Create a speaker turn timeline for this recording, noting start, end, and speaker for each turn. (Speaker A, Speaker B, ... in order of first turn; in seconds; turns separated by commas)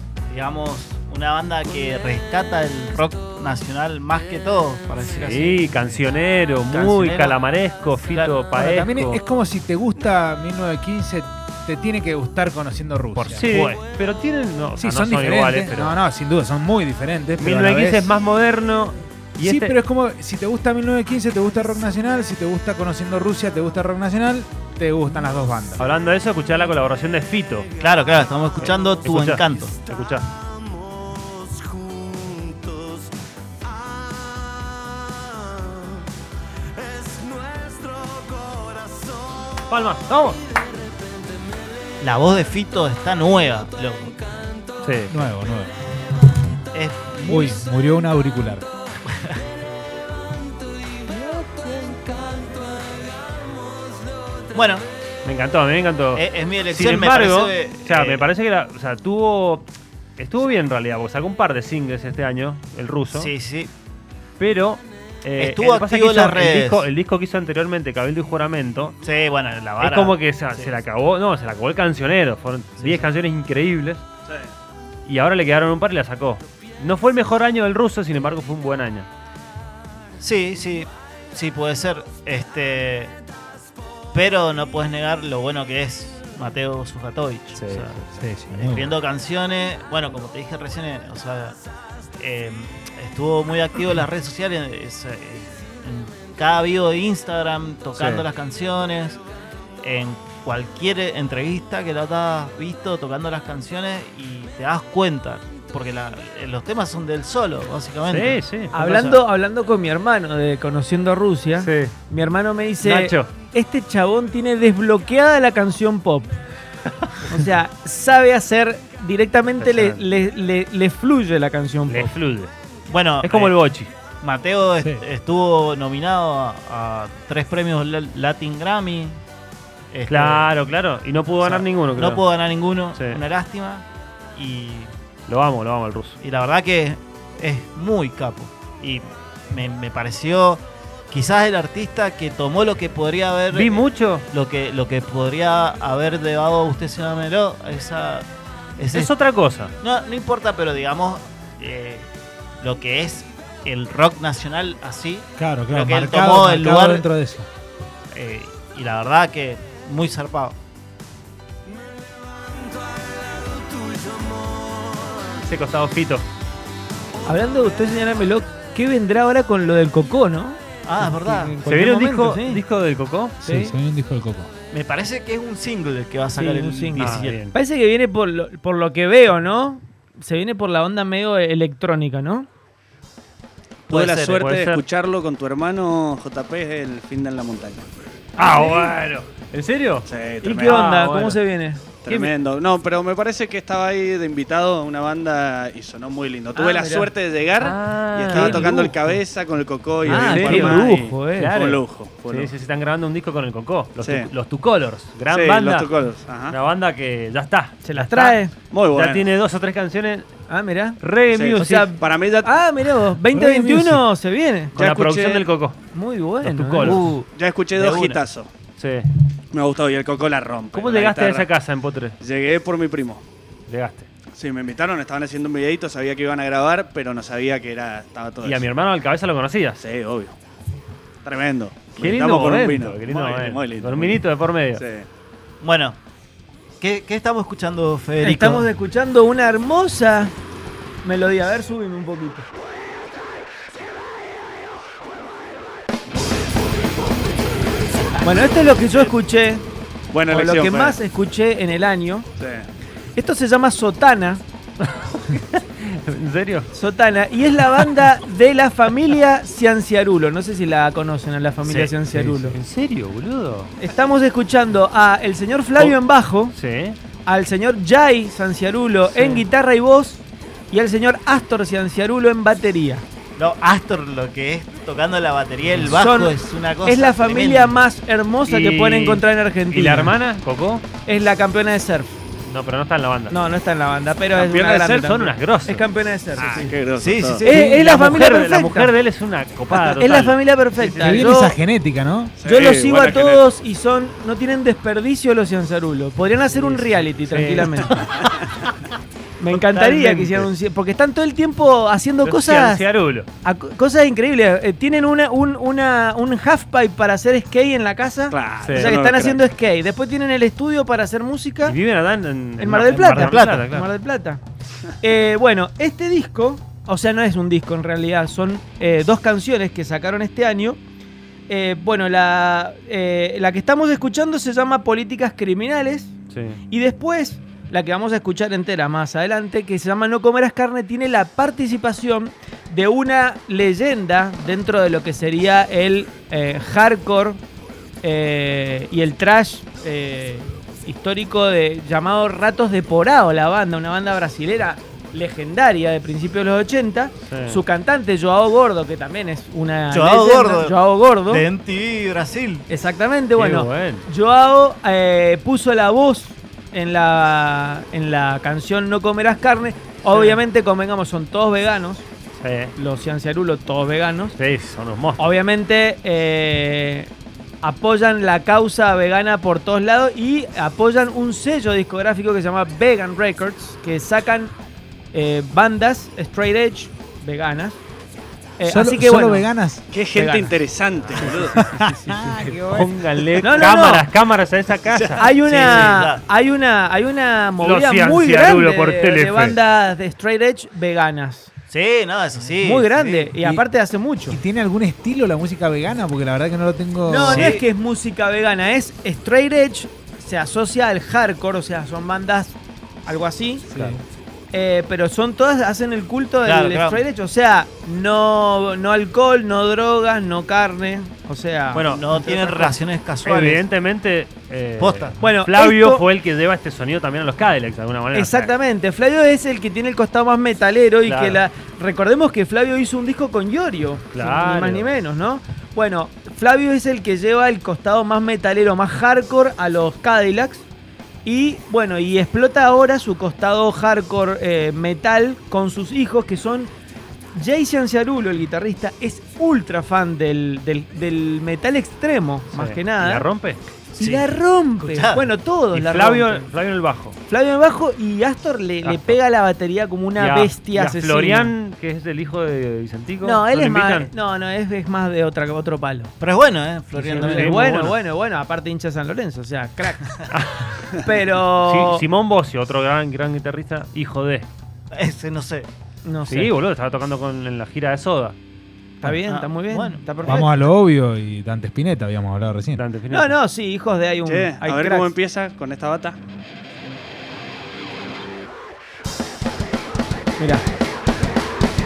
Speaker A: 0.3-5.9, Speaker B: 5.2-9.2, Speaker A: 6.7-7.4, Speaker A: 8.1-8.4, Speaker C: 8.6-13.6, Speaker B: 13.2-15.9, Speaker A: 13.5-13.8, Speaker C: 14.8-18.1, Speaker B: 17.4-19.8, Speaker C: 19.4-25.8, Speaker B: 25.8-27.7, Speaker A: 27.8-29.7, Speaker B: 28.6-30.3, Speaker B: 39.7-40.4, Speaker A: 42.0-44.3, Speaker B: 44.8-45.1, Speaker C: 45.1-45.8, Speaker A: 46.7-47.6, Speaker C: 47.2-48.7, Speaker B: 51.1-52.4, Speaker A: 54.5-54.9, Speaker B: 55.2-63.3, Speaker A: 56.1-58.3, Speaker A: 63.1-63.7, Speaker B: 64.4-69.0, Speaker A: 65.4-66.9, Speaker A: 69.0-70.7, Speaker B: 69.8-74.0, Speaker A: 72.8-73.1, Speaker B: 75.1-79.1, Speaker A: 80.2-83.2, Speaker A: 84.1-91.6, Speaker B: 87.5-88.0, Speaker C: 88.2-89.0, Speaker A: 92.2-99.2, Speaker B: 98.0-98.2, Speaker A: 99.8-109.2, Speaker B: 108.1-108.7, Speaker D: 108.7-116.4, Speaker B: 111.6-111.9, Speaker B: 112.8-113.3, Speaker D: 117.3-122.1, Speaker B: 119.6-120.0, Speaker B: 121.9-122.5, Speaker A: 122.9-123.6, Speaker B: 123.2-123.9, Speaker A: 124.2-129.2, Speaker A: 129.9-130.5, Speaker B: 130.1-132.2, Speaker A: 131.4-134.9, Speaker B: 132.9-133.2, Speaker B: 135.3-136.2, Speaker A: 136.2-148.3, Speaker B: 143.5-144.3, Speaker A: 148.8-149.1, Speaker B: 148.9-149.8, Speaker A: 149.8-152.1, Speaker A: 152.6-157.1, Speaker C: 155.4-157.5, Speaker A: 158.1-160.6, Speaker B: 165.3-166.3, Speaker D: 167.2-172.6, Speaker A: 170.8-171.6, Speaker B: 171.6-173.5, Speaker C: 173.4-174.5, Speaker A: 174.7-177.5, Speaker D: 176.4-182.5, Speaker B: 177.0-177.6, Speaker A: 183.9-184.4, Speaker E: 183.9-187.9, Speaker B: 184.4-184.8, Speaker B: 188.4-190.1, Speaker D: 188.5-188.9, Speaker E: 190.1-190.9, Speaker D: 190.4-191.9, Speaker B: 190.6-191.4, Speaker E: 192.0-202.5, Speaker B: 192.1-192.3, Speaker D: 196.6-197.1, Speaker B: 197.6-198.9, Speaker D: 200.0-201.5, Speaker B: 200.1-205.9, Speaker E: 204.0-204.3, Speaker E: 205.3-206.6, Speaker B: 206.5-208.4, Speaker D: 207.8-208.5, Speaker E: 208.7-209.3, Speaker B: 208.9-210.3, Speaker D: 210.5-211.0, Speaker B: 211.0-211.9, Speaker E: 211.3-212.5, Speaker D: 211.5-214.8, Speaker C: 213.3-214.0, Speaker E: 214.8-215.5, Speaker B: 214.8-215.8, Speaker D: 215.9-217.0, Speaker B: 216.4-217.2, Speaker A: 216.8-218.2, Speaker E: 217.1-218.5, Speaker B: 218.8-219.1, Speaker E: 219.5-221.5, Speaker B: 220.7-222.2, Speaker E: 222.2-223.2, Speaker B: 223.7-224.1, Speaker E: 224.3-228.7, Speaker B: 228.4-229.8, Speaker E: 229.8-230.3, Speaker E: 231.2-234.2, Speaker B: 232.0-234.8, Speaker E: 234.8-235.1, Speaker A: 235.6-236.0, Speaker A: 236.8-238.7, Speaker D: 238.2-240.3, Speaker D: 241.0-242.5, Speaker D: 248.2-249.6, Speaker E: 250.1-251.0, Speaker D: 250.3-252.3, Speaker E: 252.4-252.7, Speaker D: 253.2-254.4, Speaker B: 254.8-256.7, Speaker D: 256.7-262.6, Speaker A: 261.6-261.9, Speaker B: 262.1-263.7, Speaker D: 263.8-266.6, Speaker B: 266.5-267.0, Speaker D: 267.2-273.0, Speaker B: 269.1-269.4, Speaker A: 273.4-277.8, Speaker D: 275.9-276.3, Speaker D: 276.9-280.1, Speaker B: 278.5-280.9, Speaker D: 281.1-282.1, Speaker B: 282.4-283.4, Speaker D: 283.3-286.8, Speaker E: 284.3-285.2, Speaker B: 285.0-285.9, Speaker E: 286.4-287.5, Speaker A: 286.9-287.9, Speaker D: 287.4-288.9, Speaker B: 287.6-291.3, Speaker D: 289.7-291.6, Speaker C: 291.0-292.4, Speaker E: 292.4-293.4, Speaker D: 292.4-297.9, Speaker B: 296.5-298.4, Speaker D: 299.4-302.8, Speaker A: 299.7-300.4, Speaker B: 299.8-300.4, Speaker B: 302.2-303.3, Speaker D: 303.4-311.8, Speaker E: 308.3-309.4, Speaker B: 308.6-309.0, Speaker B: 311.6-313.9, Speaker D: 312.6-314.4, Speaker A: 313.2-313.7, Speaker D: 315.0-320.8, Speaker D: 321.5-326.1, Speaker B: 326.3-326.6, Speaker D: 326.7-337.4, Speaker D: 338.0-351.4, Speaker B: 347.3-347.6, Speaker A: 349.9-352.6, Speaker D: 352.7-362.1, Speaker B: 353.4-354.1, Speaker B: 360.1-360.4, Speaker B: 362.4-362.7, Speaker D: 362.8-364.4, Speaker B: 364.4-365.2, Speaker D: 365.2-367.1, Speaker D: 367.6-374.5, Speaker D: 375.1-377.8, Speaker D: 378.6-379.5, Speaker C: 378.7-379.8, Speaker E: 379.9-381.7, Speaker D: 380.1-382.6, Speaker C: 381.5-383.2, Speaker B: 382.7-385.9, Speaker D: 383.4-384.1, Speaker E: 384.9-385.3, Speaker D: 385.2-391.5, Speaker A: 385.2-386.2, Speaker B: 387.6-389.6, Speaker A: 391.7-393.3, Speaker D: 392.6-394.4, Speaker C: 393.4-393.6, Speaker C: 394.3-397.5, Speaker D: 397.1-403.8, Speaker A: 397.3-397.6, Speaker B: 403.7-404.0, Speaker C: 403.7-404.0, Speaker D: 404.5-411.9, Speaker A: 406.4-407.0, Speaker B: 411.7-418.5, Speaker A: 411.8-413.6, Speaker A: 414.8-415.2, Speaker D: 415.2-416.1, Speaker D: 418.1-430.7, Speaker B: 421.1-421.4, Speaker B: 424.1-424.9, Speaker D: 431.2-436.7, Speaker D: 437.3-443.3, Speaker B: 442.5-443.6, Speaker D: 443.9-446.5, Speaker A: 444.0-445.3, Speaker B: 445.7-447.2, Speaker D: 447.3-451.5, Speaker B: 448.8-449.2, Speaker B: 450.2-454.1, Speaker D: 453.2-456.1, Speaker A: 456.2-457.8, Speaker B: 456.9-458.0, Speaker D: 457.3-460.3, Speaker B: 460.3-460.8, Speaker D: 460.9-462.1, Speaker B: 461.6-464.5, Speaker A: 464.9-465.7, Speaker D: 466.1-466.5, Speaker B: 466.3-468.4, Speaker D: 469.0-470.3, Speaker A: 469.2-470.7, Speaker C: 470.2-472.8, Speaker B: 472.8-473.3, Speaker D: 473.1-475.1, Speaker E: 474.2-476.2, Speaker D: 480.4-480.7